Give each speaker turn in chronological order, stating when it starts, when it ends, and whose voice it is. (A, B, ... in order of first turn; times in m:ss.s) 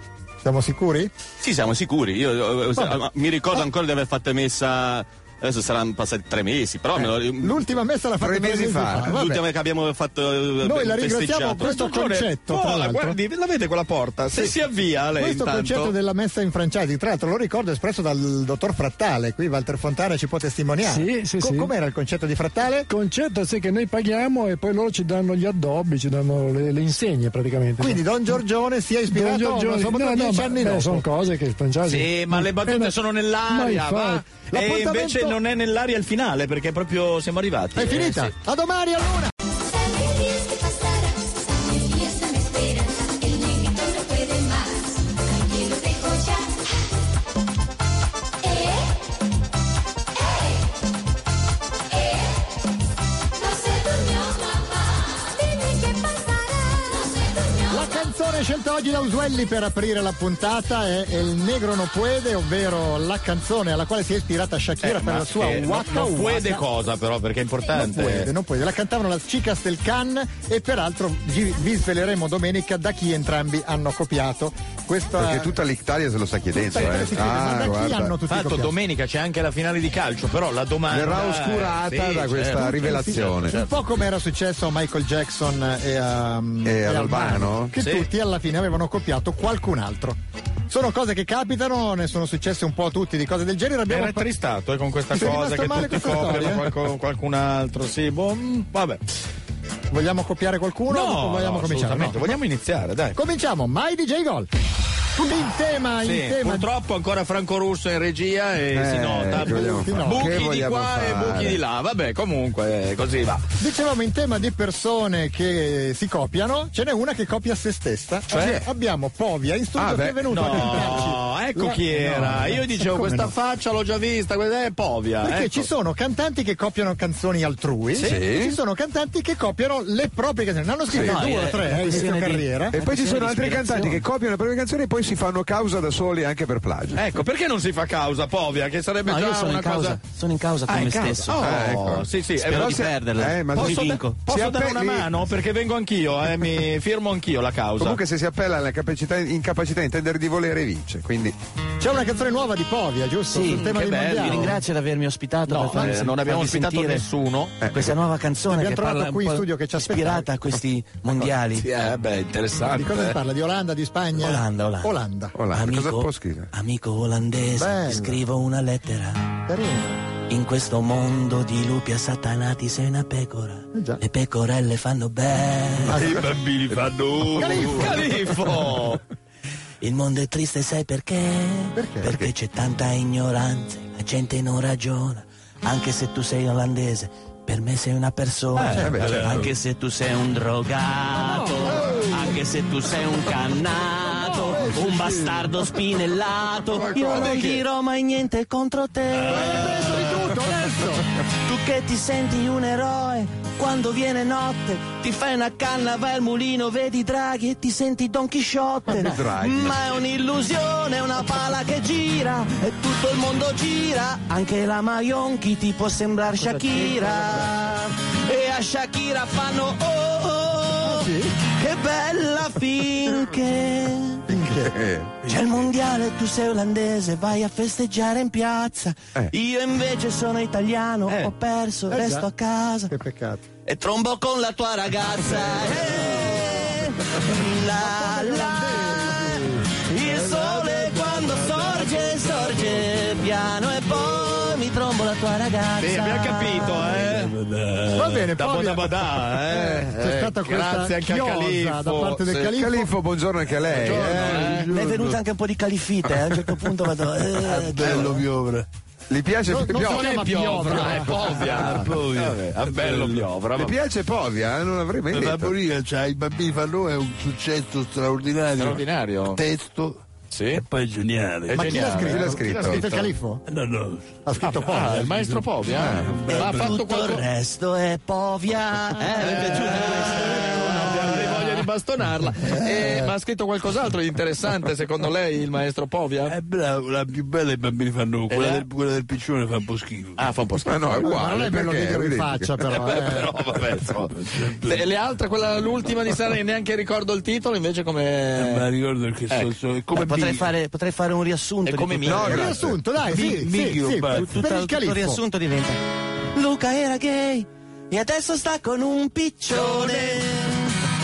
0:00.4-0:01.1 A
0:01.4-0:07.6 B
0:02.8-0:03.0 A
0:07.0-0:09.3 A
0:08.2-0:09.4 C
0:09.1-0:11.7 B
0:10.6-0:13.2 A
0:11.5-0:15.9 D
0:15.1-0:22.9 A
0:20.8-0:21.7 E
0:22.9-0:28.0 E
0:27.8-0:31.1 A
0:29.1-0:33.0 E
0:31.9-0:38.3 D
0:33.5-0:34.2 E
0:34.5-0:35.4 A
0:37.8-0:39.3 A
0:39.6-0:46.7 F
0:48.4-0:49.0 F
0:51.9-0:52.4 F
0:53.4-0:58.1 F
0:57.7-1:06.6 A
1:04.8-1:08.3 D
1:07.7-1:15.5 A
1:15.2-1:18.1 C
1:16.7-1:18.7 A
1:16.8-1:17.0 D
1:18.3-1:23.7 D
1:20.9-1:23.6 C
1:22.8-1:34.3 A
1:26.6-1:27.7 C
1:27.8-1:28.1 D
1:33.9-1:39.0 D
1:35.1-1:36.7 A
1:39.9-1:42.3 A
1:40.9-1:43.2 D
1:43.1-1:44.5 A
1:45.1-1:46.7 A
1:46.0-1:53.4 D
1:48.7-1:51.6 C
1:49.4-1:50.4 A
1:53.6-2:03.3 A
1:58.3-1:58.6 D
1:58.3-1:58.6 C
1:59.8-2:01.1 C
2:00.3-2:05.6 D
2:05.2-2:12.8 A
2:08.0-2:08.2 D
2:08.0-2:08.6 C
2:10.9-2:11.3 C
2:11.0-2:14.1 G
2:11.2-2:11.6 D
2:12.7-2:17.0 C
2:17.0-2:20.0 D
2:19.0-2:24.3 G
2:20.7-2:22.9 D
2:21.3-2:25.1 C
2:23.5-2:28.0 D
2:27.8-2:31.4 C
2:31.8-2:34.6 A
2:33.3-2:37.1 G
2:33.4-2:34.6 D
2:35.5-2:37.6 D
2:35.7-2:36.0 A
2:37.6-2:38.0 C
2:37.6-2:41.7 G
2:38.5-2:40.3 A
2:41.5-2:43.2 D
2:42.7-2:45.4 A
2:44.1-2:45.0 G
2:45.4-2:46.5 C
2:45.5-2:49.4 G
2:47.6-2:48.2 A
2:49.4-2:50.0 A
2:50.3-2:56.0 G
2:53.7-2:54.0 A
2:55.9-2:56.2 A
2:56.0-2:58.5 H
2:57.4-2:58.0 A
2:57.8-2:59.0 D
2:59.8-3:20.1 G
3:01.8-3:02.2 A
3:02.1-3:02.3 C
3:08.6-3:09.5 H
3:08.8-3:09.3 C
3:11.5-3:11.9 A
3:14.1-3:14.7 A
3:14.2-3:15.4 H
3:16.9-3:17.6 D
3:19.3-3:21.1 A
3:21.4-3:44.3 G
3:28.9-3:30.0 C
3:40.8-3:41.3 A
3:44.3-3:44.7 A
3:44.4-3:45.2 C
3:45.2-3:52.9 G
3:51.9-3:52.3 A
3:52.9-3:53.4 A
3:53.7-4:06.6 G
3:57.7-3:59.5 A
4:00.0-4:03.2 H
4:05.8-4:07.3 D
4:06.7-4:08.3 H
4:07.9-4:12.9 A
4:08.4-4:12.5 D
4:12.5-4:14.6 C
4:13.7-4:14.7 D
4:13.8-4:15.2 H
4:14.7-4:18.2 G
4:17.3-4:18.7 H
4:17.8-4:18.1 D
4:19.1-4:21.0 C
4:19.5-4:21.4 A
4:19.7-4:23.8 D
4:21.4-4:23.3 H
4:23.6-4:25.6 C
4:25.1-4:32.0 H
4:28.6-4:29.4 D
4:30.3-4:30.6 D
4:31.5-4:33.1 D
4:31.5-4:33.4 A
4:31.8-4:32.9 C
4:33.5-4:36.8 H
4:34.2-4:35.1 A
4:34.6-4:37.2 D
4:35.7-4:36.2 C
4:36.3-4:40.7 G
4:39.0-4:46.3 D
4:39.1-4:41.4 H
4:42.4-4:43.1 H
4:46.3-4:50.2 H
4:48.3-4:48.6 D
4:50.2-4:51.1 D
4:50.6-4:52.5 C
4:51.0-4:53.3 A
4:52.8-4:58.7 D
4:54.2-4:54.8 H
4:58.4-5:00.6 H
4:59.9-5:02.6 G
5:01.6-5:02.6 D
5:02.0-5:02.8 C
5:02.3-5:05.2 A
5:03.1-5:04.4 H
5:03.3-5:05.8 G
5:06.3-5:10.8 G
5:09.5-5:10.2 D